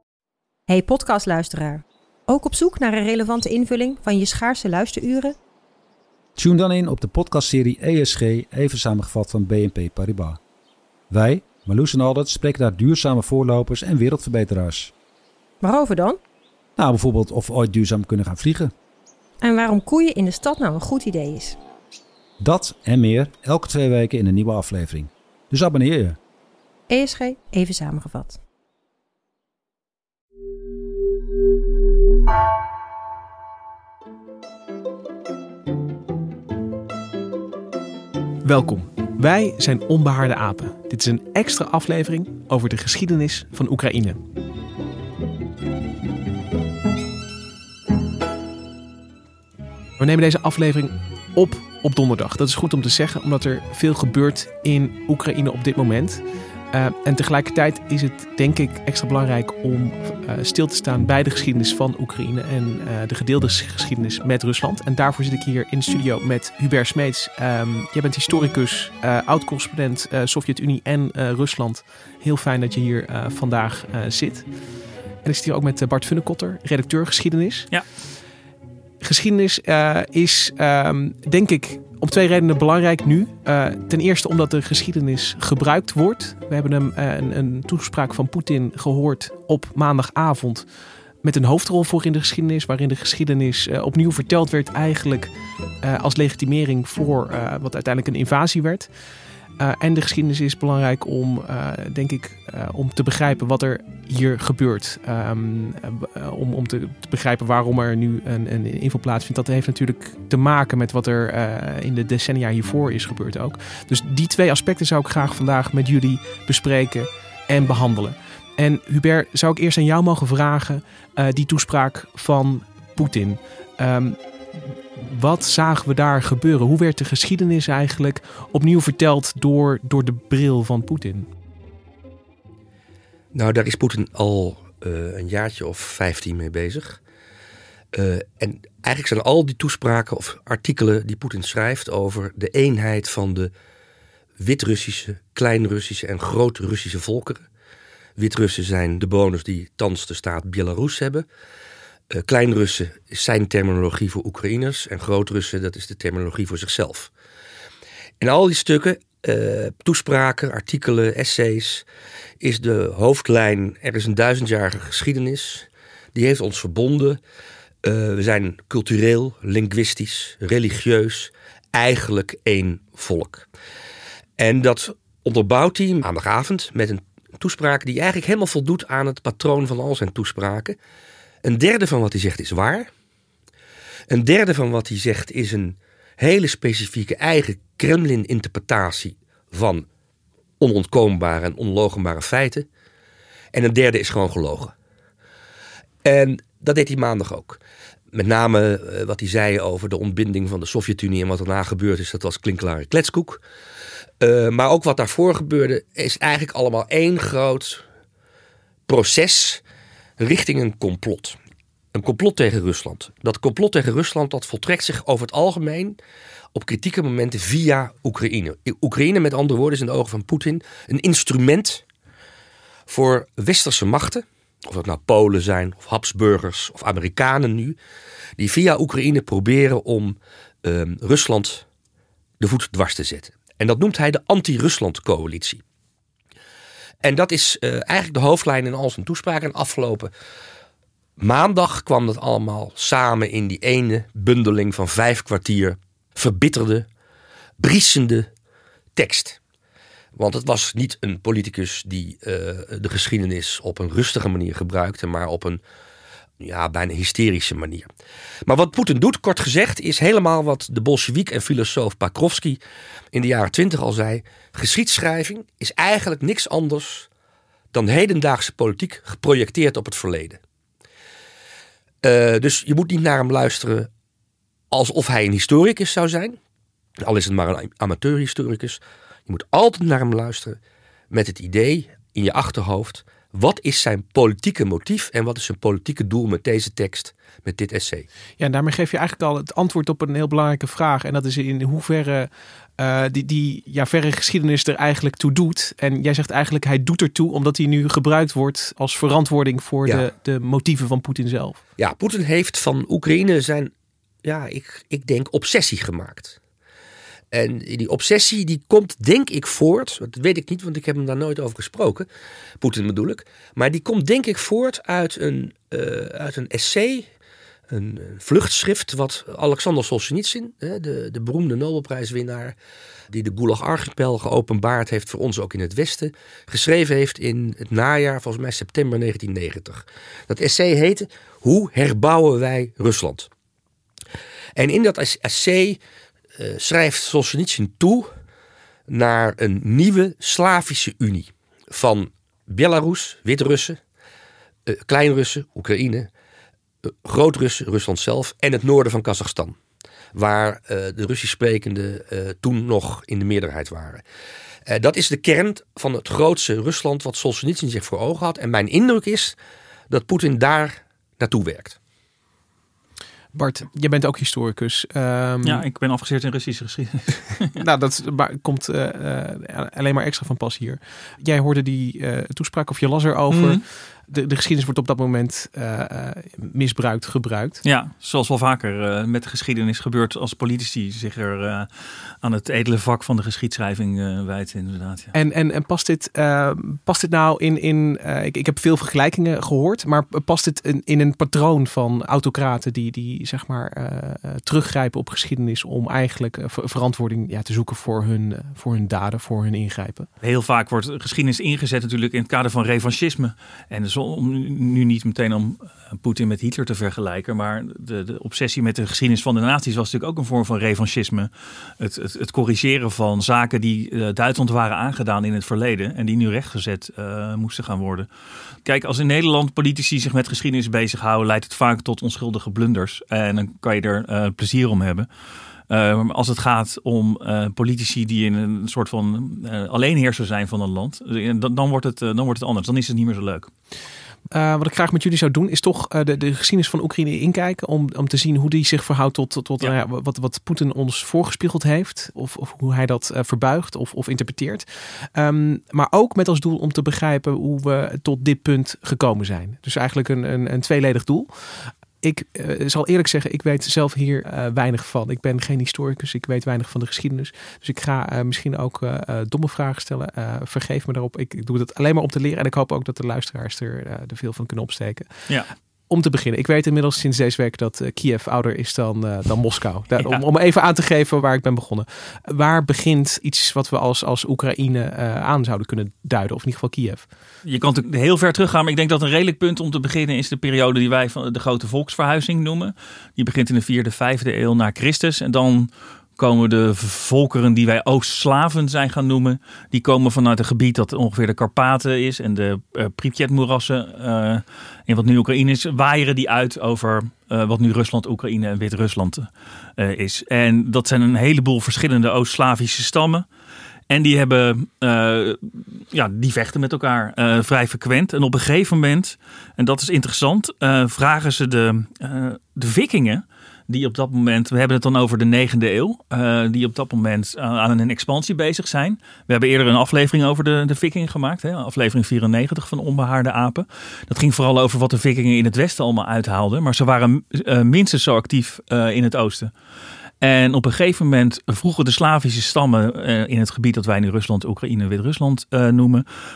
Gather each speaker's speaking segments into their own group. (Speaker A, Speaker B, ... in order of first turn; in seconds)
Speaker A: 0.7-5.3, 15.6-16.2, 19.4-21.6, 26.9-28.4
Speaker B: 6.3-10.4, 11.1-14.9, 16.8-18.7, 22.4-26.2
Speaker C: 38.4-44.2, 50.0-74.5, 75.2-77.7, 79.0-90.7, 91.2-98.9, 99.6-131.3, 288.4-301.6, 363.3-365.6, 367.5-377.6, 385.1-400.1, 434.3-465.1, 465.9-477.1
Speaker D: 133.3-137.0, 137.9-143.5, 144.4-147.4, 148.2-151.2, 152.1-157.1, 158.2-161.8, 162.4-167.2, 167.8-173.5, 174.4-180.8, 181.4-182.9, 184.1-189.8, 190.6-192.7, 193.5-194.7, 196.0-197.6, 198.1-203.4, 204.2-207.8, 208.9-209.6, 210.2-211.4, 211.9-216.0, 216.5-221.8, 222.9-227.8, 228.4-231.6, 232.4-235.6, 237.0-240.1, 241.2-246.9, 247.6-248.3, 248.9-249.4, 250.1-255.6, 256.4-257.9, 258.4-262.6, 263.1-267.1, 267.7-270.4, 272.0-273.9, 274.7-276.4, 277.0-280.6, 281.1-288.1, 301.8-303.7, 304.2-306.4, 307.3-312.1, 312.6-317.1, 317.7-322.5, 323.1-333.3, 334.6-335.8, 336.4-338.1, 338.9-343.8, 344.7-346.1, 347.0-349.6, 350.1-354.0, 354.7-359.4, 359.9-361.8
Speaker E: 365.4-367.6, 373.3-373.6, 377.6-381.7, 382.2-385.1, 400.2-418.1, 418.6-425.1, 425.7-433.5, 477.4-503.2, 503.9-529.5, 530.2-536.0